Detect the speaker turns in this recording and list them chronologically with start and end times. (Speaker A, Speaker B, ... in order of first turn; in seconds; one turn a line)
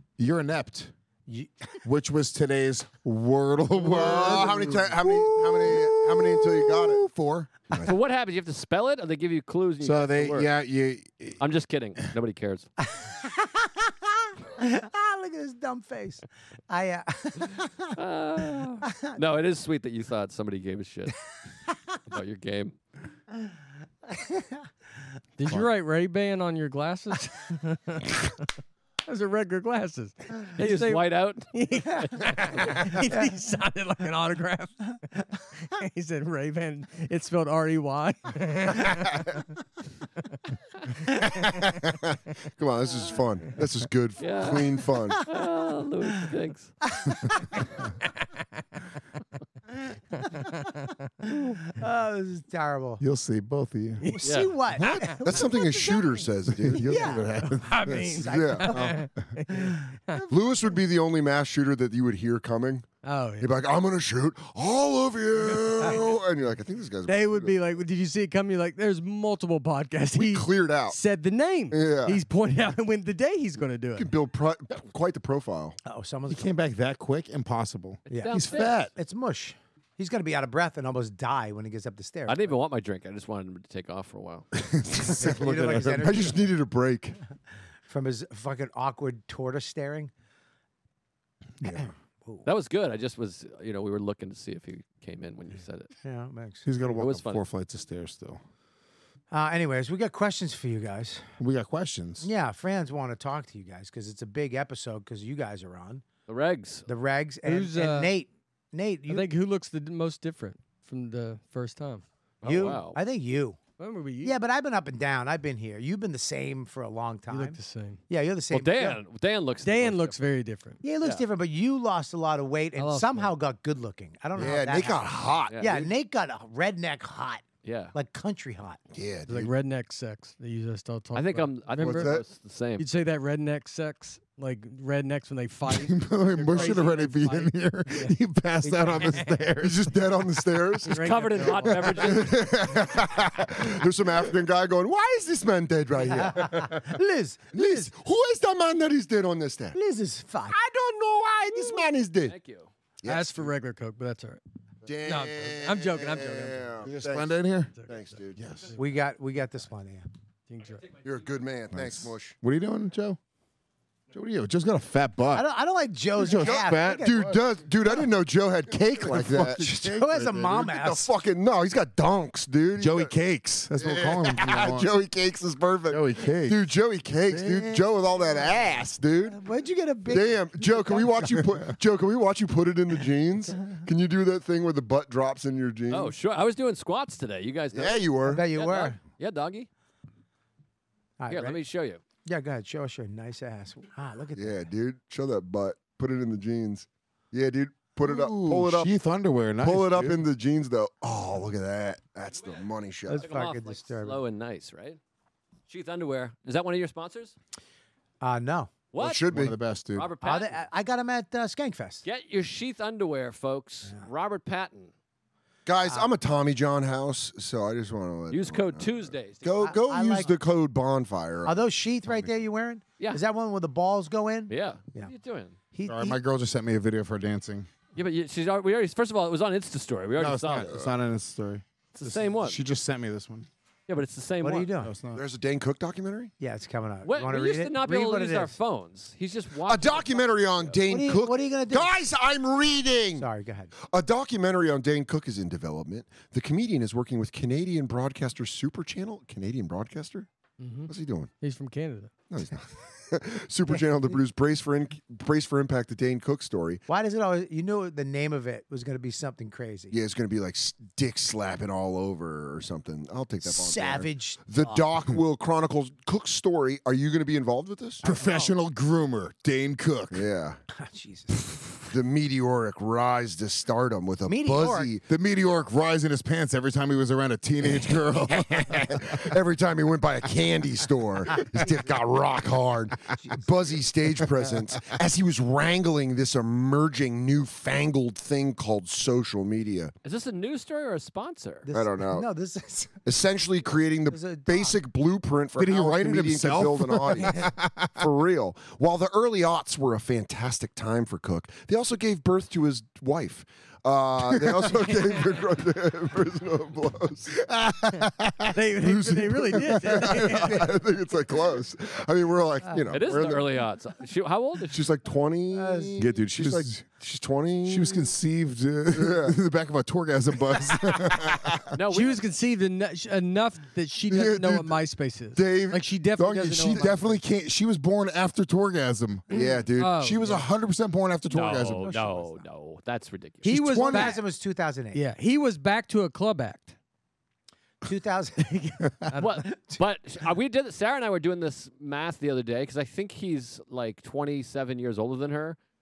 Speaker A: 0.2-0.9
Speaker A: 1.8-7.6
Speaker B: 3.8-7.0
Speaker C: 7.8-10.5
Speaker A: 9.8-11.4
Speaker C: 11.4-12.7
Speaker D: 13.0-13.8
Speaker D: 14.6-17.8
Speaker C: 18.0-21.1
Speaker D: 18.8-19.1
Speaker C: 22.1-22.8
Speaker D: 24.1-24.5
Speaker E: 25.4-28.3
Speaker E: 29.1-34.9
Speaker C: 30.6-31.5
Speaker E: 35.8-39.3
Speaker B: 42.6-45.2
Speaker C: 44.2-44.7
Speaker C: 45.2-46.8
Speaker D: 51.8-53.0
Speaker A: 53.0-54.2
Speaker E: 54.0-54.3
Speaker D: 54.2-56.1
Speaker C: 54.2-54.6
Speaker B: 54.8-57.1
Speaker A: 56.5-58.2
Speaker D: 56.9-57.2
Speaker E: 57.6-60.3
Speaker B: 58.2-59.0
Speaker D: 58.2-58.9
Speaker D: 59.5-59.8
Speaker B: 60.3-62.9
Speaker E: 63.0-63.5
Speaker B: 63.4-67.6
Speaker E: 65.7-66.0
Speaker E: 67.1-74.1
Speaker B: 70.2-71.0
Speaker B: 71.7-72.2
Speaker B: 74.0-75.8
Speaker D: 75.8-76.5
Speaker A: 76.3-78.9
Speaker C: 78.1-78.8
Speaker D: 78.1-82.5
Speaker C: 82.3-84.5
Speaker B: 85.0-87.2
Speaker A: 85.1-86.0
Speaker D: 85.2-86.4
Speaker D: 87.9-90.1
Speaker D: 91.8-92.5
Speaker C: 92.5-95.9
Speaker D: 96.0-96.7
Speaker A: 96.7-98.4
Speaker C: 96.9-97.4
Speaker D: 99.3-101.2
Speaker A: 101.4-102.3
Speaker D: 102.2-106.0
Speaker C: 106.3-106.9
Speaker D: 106.9-109.3
Speaker E: 107.4-108.1
Speaker E: 109.1-112.0
Speaker C: 112.4-113.0
Speaker D: 112.4-113.6
Speaker E: 113.8-114.4
Speaker D: 114.2-119.0
Speaker E: 117.3-118.0
Speaker C: 118.5-120.2
Speaker E: 119.6-120.8
Speaker D: 120.8-128.8
Speaker E: 122.8-123.3
Speaker B: 124.4-125.6
Speaker C: 125.5-125.9
Speaker C: 127.6-127.9
Speaker B: 128.9-129.5
Speaker E: 129.3-132.2
Speaker C: 131.1-132.9
Speaker B: 131.8-132.2
Speaker E: 132.8-139.4
Speaker A: 135.7-139.8
Speaker B: 139.6-146.8
Speaker E: 140.8-142.3
Speaker C: 140.9-142.3
Speaker D: 146.1-147.9
Speaker B: 147.5-149.8
Speaker D: 149.7-150.6
Speaker B: 150.5-152.3
Speaker C: 152.3-152.7
Speaker B: 153.0-153.5
Speaker E: 153.1-154.4
Speaker B: 154.8-158.4
Speaker E: 155.1-156.7
Speaker A: 156.8-157.7
Speaker A: 158.4-158.7
Speaker D: 158.8-160.1
Speaker E: 160.5-160.9
Speaker B: 161.0-162.4
Speaker A: 161.7-163.2
Speaker A: 164.1-165.5
Speaker D: 165.3-167.3
Speaker A: 166.2-167.3
Speaker B: 166.4-173.1
Speaker A: 169.1-170.4
Speaker D: 169.6-171.1
Speaker A: 172.8-174.9
Speaker B: 173.8-179.4
Speaker A: 175.9-176.6
Speaker A: 177.4-177.7
Speaker D: 179.3-181.1
Speaker B: 180.1-186.1
Speaker C: 185.9-189.7
Speaker B: 187.7-188.5
Speaker D: 188.3-189.0
Speaker D: 191.2-191.6
Speaker C: 191.3-192.0
Speaker D: 192.2-194.6
Speaker B: 194.4-198.9
Speaker A: 198.0-200.2
Speaker B: 199.6-203.3
Speaker D: 203.1-204.2
Speaker C: 203.2-205.0
Speaker C: 205.7-207.3
Speaker D: 208.2-208.7
Speaker C: 208.9-209.3
Speaker B: 209.0-209.6
Speaker A: 209.3-210.1
Speaker C: 209.9-210.6
Speaker D: 210.2-212.0
Speaker C: 212.0-214.9
Speaker B: 215.7-222.3
Speaker C: 218.3-219.7
Speaker D: 219.6-220.3
Speaker D: 221.5-225.1
Speaker C: 224.5-225.6
Speaker D: 225.7-226.2
Speaker A: 225.9-227.7
Speaker C: 227.9-230.7
Speaker A: 230.2-233.5
Speaker C: 231.9-232.6
Speaker C: 233.9-234.7
Speaker D: 234.4-234.9
Speaker A: 234.8-235.2
Speaker B: 235.1-236.3
Speaker D: 236.4-238.6
Speaker C: 237.0-240.8
Speaker B: 239.7-243.3
Speaker D: 240.9-241.9
Speaker D: 243.2-243.7
Speaker B: 243.9-250.3
Speaker E: 250.6-252.1
Speaker B: 250.9-251.3
Speaker B: 252.3-256.8
Speaker D: 256.9-259.9
Speaker B: 259.9-268.0
Speaker D: 263.4-264.9
Speaker D: 268.0-268.5
Speaker A: 268.0-270.2
Speaker B: 270.1-270.6
Speaker D: 270.7-271.3
Speaker B: 271.9-275.1
Speaker D: 274.3-274.9
Speaker A: 275.1-279.1
Speaker B: 278.9-289.9
Speaker C: 290.0-291.7
Speaker D: 291.6-292.9
Speaker B: 291.7-292.3
Speaker B: 293.1-308.1
Speaker D: 294.1-294.8
Speaker A: 295.6-297.9
Speaker E: 308.5-310.7
Speaker B: 308.8-313.6
Speaker C: 312.9-314.8
Speaker B: 314.7-318.1
Speaker D: 315.6-316.0
Speaker A: 316.0-316.9
Speaker A: 317.7-321.5
Speaker B: 318.9-319.4
Speaker C: 321.8-322.2
Speaker E: 321.9-327.1
Speaker B: 324.1-324.8
Speaker B: 325.3-327.2
Speaker A: 326.2-329.4
Speaker B: 329.3-330.5
Speaker E: 329.3-330.4
Speaker A: 330.3-332.2
Speaker C: 331.3-333.5
Speaker E: 333.4-334.2
Speaker B: 333.7-334.1
Speaker D: 333.9-335.0
Speaker E: 334.9-336.8
Speaker D: 337.9-338.5
Speaker E: 338.5-339.4
Speaker C: 339.2-345.6
Speaker D: 339.5-339.8